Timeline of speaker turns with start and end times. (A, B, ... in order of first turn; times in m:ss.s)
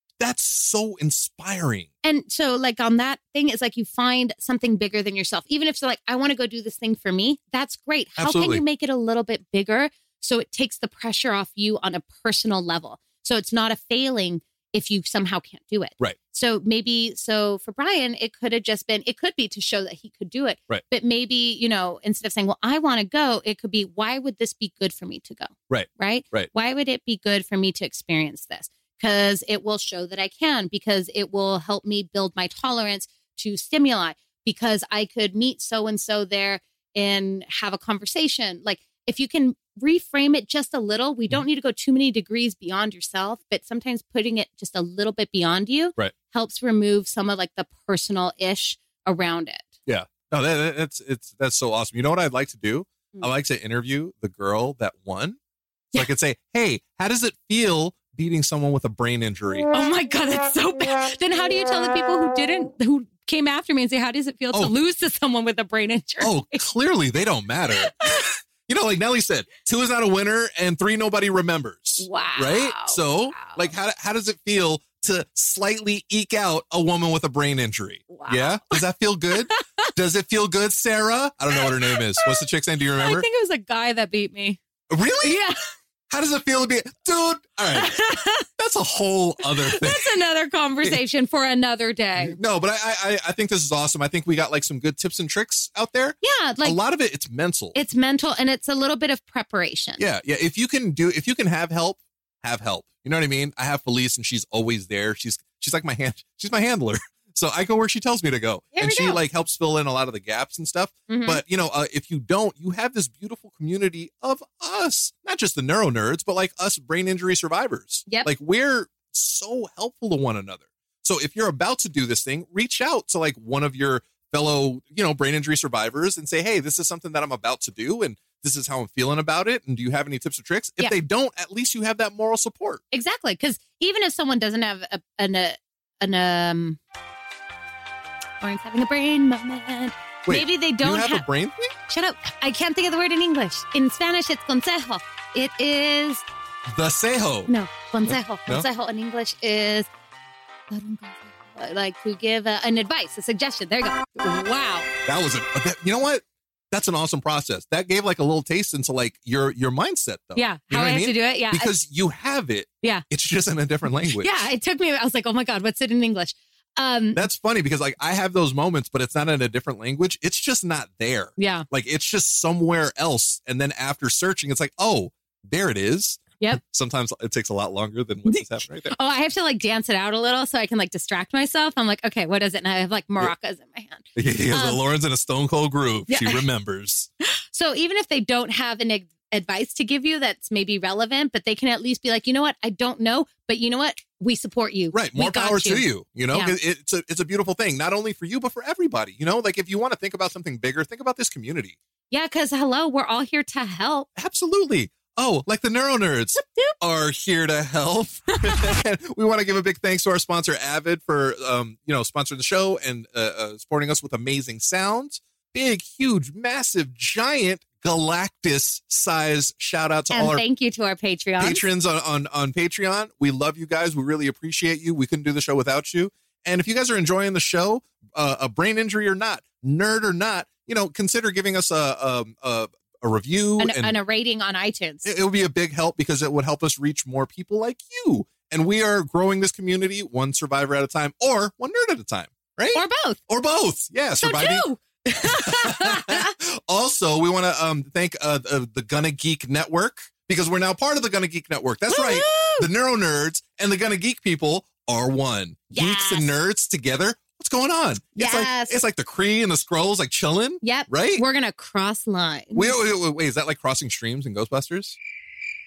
0:00.2-0:01.9 A
0:02.0-0:49.7 B
0:08.2-0:08.6 A
0:25.7-0:26.5 A
0:49.9-0:55.4 A
0:55.9-0:59.7 A
0:59.7-1:06.6 B
1:06.2-1:08.1 A
1:08.0-1:08.3 B
1:08.7-1:23.2 A
1:12.0-1:13.7 B
1:18.1-1:18.8 B
1:19.5-1:19.9 B
1:21.5-1:22.4 B
1:23.0-1:24.6 B
1:24.9-1:25.4 A
1:25.2-1:25.6 B
1:26.1-1:27.9 A
1:27.7-1:28.4 B
1:28.6-1:30.2 A
1:29.6-1:32.4 B
1:32.2-1:37.8 A
1:36.2-1:36.8 B
1:37.7-1:40.0 B
1:40.0-2:12.8 A
1:48.7-1:49.2 B
1:51.1-1:51.4 B
2:12.9-2:16.8 B
2:18.4-2:21.2 B
2:20.2-2:21.7 A
2:21.9-2:26.2 B
2:26.7-2:27.5 A
2:27.5-2:29.9 B
2:28.0-2:28.6 A
2:30.7-2:34.9 B
2:35.0-2:44.5 A
2:40.3-2:41.7 B
2:44.1-2:47.2 B
2:47.1-2:58.9 A
2:51.4-2:51.7 B
2:58.2-3:04.8 B
3:04.2-3:07.1 A
3:06.1-3:06.4 B
3:07.5-3:16.5 B
3:14.9-3:21.8 A
3:22.1-3:24.1 B
3:24.2-3:40.4 A
3:26.4-3:26.7 B
3:28.3-3:28.8 B
3:40.1-3:41.6 B
3:41.4-3:53.9 A
3:53.6-3:55.1 B
3:55.0-4:04.7 A
4:02.7-4:03.2 B
4:04.2-4:06.3 B
4:05.2-4:21.2 A
4:11.9-4:12.7 B
4:15.7-4:16.3 B
4:18.2-4:18.8 B
4:20.6-4:22.8 B
4:22.5-4:25.0 A